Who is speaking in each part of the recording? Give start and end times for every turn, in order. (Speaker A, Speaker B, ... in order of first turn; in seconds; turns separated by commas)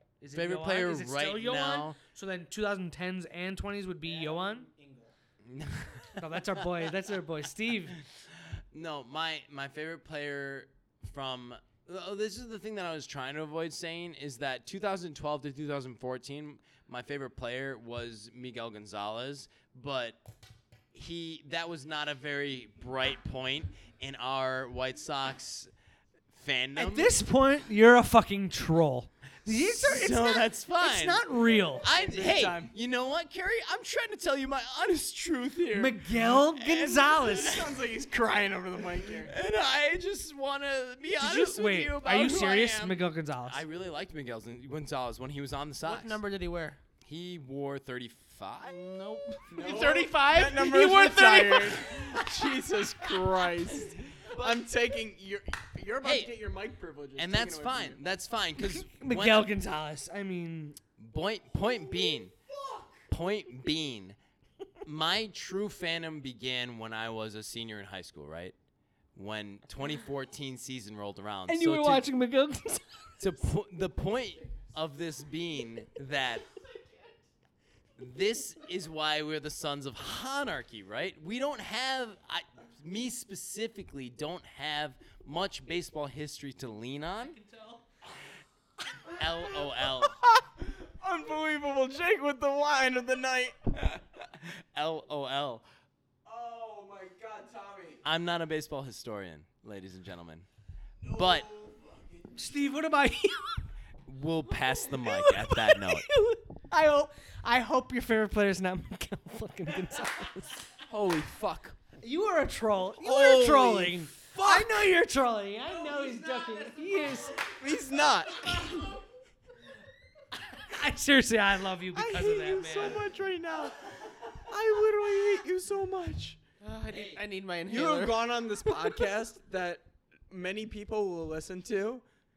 Speaker A: 0.2-4.7, Speaker B: 0.3-2.0, Speaker C: 4.0-5.2, Speaker B: 5.4-6.5, Speaker A: 6.2-8.0, Speaker B: 8.0-20.2, Speaker B: 20.9-25.7, Speaker B: 26.3-27.2, Speaker A: 26.8-31.9, Speaker B: 29.5-31.2, Speaker B: 31.8-37.8, Speaker D: 31.8-32.7, Speaker A: 35.7-37.6, Speaker D: 37.2-39.4, Speaker B: 39.1-46.2, Speaker A: 41.2-43.6, Speaker C: 45.8-46.8, Speaker B: 47.0-48.9, Speaker C: 48.6-52.2, Speaker D: 49.5-58.0, Speaker B: 56.0-56.3, Speaker B: 57.2-59.5, Speaker A: 58.6-60.8, Speaker B: 61.0-62.4, Speaker D: 62.5-63.0, Speaker B: 63.1-64.2, Speaker B: 64.8-68.5, Speaker B: 69.2-72.1, Speaker A: 71.5-73.2, Speaker B: 73.2-76.5, Speaker D: 74.4-74.7, Speaker B: 78.0-87.4, Speaker C: 87.2-87.8, Speaker B: 89.1-90.2, Speaker D: 89.1-93.8, Speaker B: 93.8-95.7, Speaker D: 96.3-98.0, Speaker B: 98.0-100.5, Speaker D: 101.0-102.5, Speaker B: 101.1-101.5, Speaker A: 102.4-103.7, Speaker B: 104.1-106.1, Speaker A: 104.8-110.7, Speaker D: 110.9-111.8, Speaker A: 112.0-117.5, Speaker D: 113.0-114.8, Speaker D: 117.3-118.9, Speaker A: 120.5-123.1, Speaker D: 121.9-126.4, Speaker C: 126.6-129.0, Speaker B: 126.9-127.2, Speaker D: 127.7-132.1